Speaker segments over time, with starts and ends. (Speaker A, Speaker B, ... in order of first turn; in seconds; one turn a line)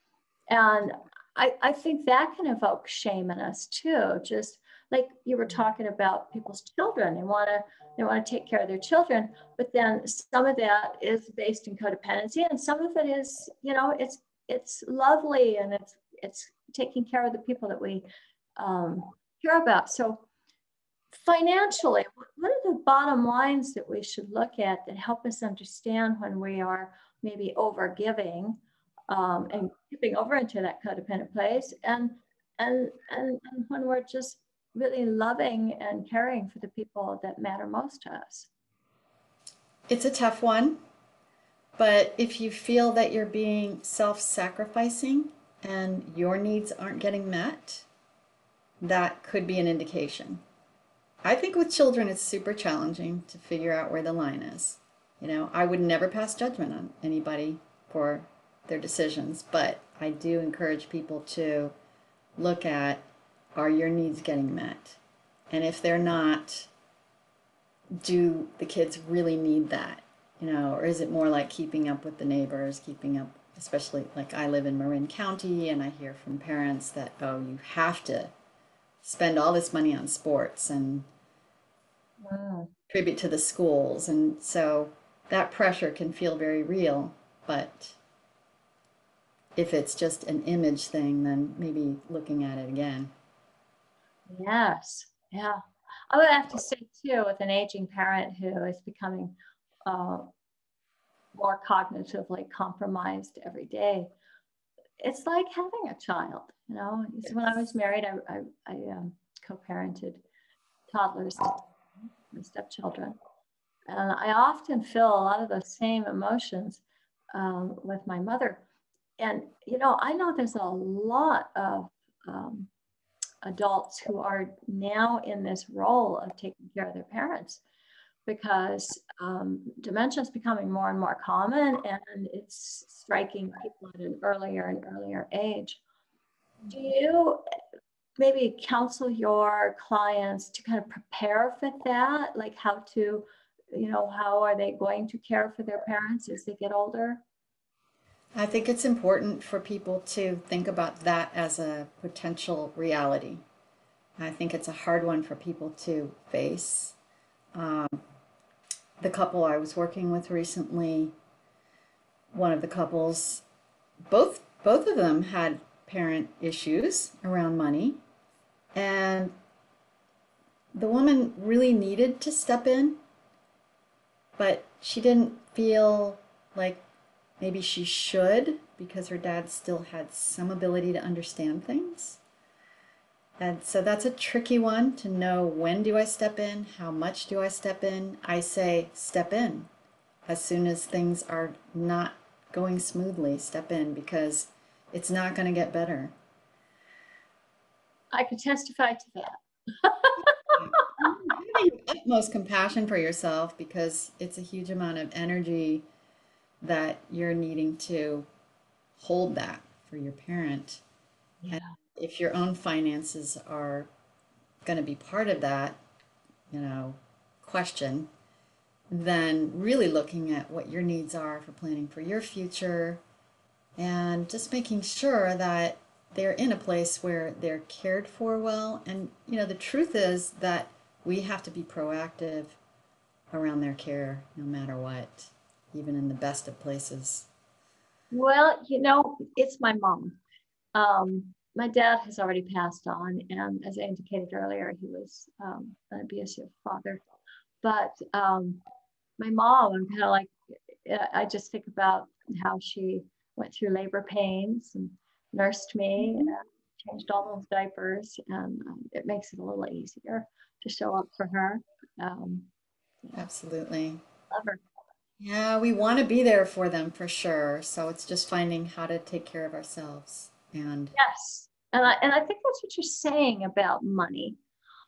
Speaker A: 0.5-20.2
Speaker A: 21.1-28.6
Speaker A: 29.1-38.5
Speaker B: 39.9-40.8
Speaker B: 41.8-47.9
Speaker B: 48.8-50.4
Speaker B: 51.2-61.7
Speaker B: 62.4-63.0
Speaker B: 63.5-65.0
Speaker B: 65.5-66.7
Speaker B: 68.0-78.3
Speaker B: 79.0-81.1
Speaker A: 82.2-82.7
Speaker B: 82.9-88.0
Speaker B: 89.5-93.1
Speaker A: 94.3-99.3
Speaker A: 99.8-100.3
Speaker A: 101.3-104.1
Speaker A: 105.0-110.2
Speaker A: 110.9-111.7
Speaker A: 112.3-113.2
Speaker A: 113.9-116.8
Speaker A: 117.3-118.6
Speaker A: 119.2-122.7
Speaker A: 123.4-127.6
Speaker A: 128.2-135.8
Speaker A: 136.7-137.4
Speaker A: 138.2-147.2
Speaker B: 148.3-153.4
Speaker B: 154.2-156.9
Speaker B: 157.5-158.0
Speaker B: 159.0-161.1
Speaker B: 162.3-163.4
Speaker B: 164.1-168.0
Speaker B: 168.7-169.3
Speaker B: 170.7-173.0
Speaker B: 174.4-176.8
Speaker B: 177.4-182.2
Speaker B: 183.4-189.7
Speaker B: 190.2-196.1
Speaker A: 198.1-200.6
Speaker B: 200.6-205.8
Speaker B: 206.6-208.3
Speaker B: 209.0-210.8
Speaker A: 211.4-211.8
Speaker B: 211.5-213.9
Speaker B: 214.6-215.8
Speaker B: 216.5-218.1
Speaker B: 218.9-223.0
Speaker B: 223.8-232.6
Speaker B: 233.3-237.3
Speaker A: 238.1-240.2
Speaker A: 240.7-247.0
Speaker A: 247.6-248.6
Speaker A: 249.2-262.5
Speaker B: 263.1-264.0
Speaker A: 264.3-264.6
Speaker B: 265.2-270.9
Speaker A: 270.9-274.4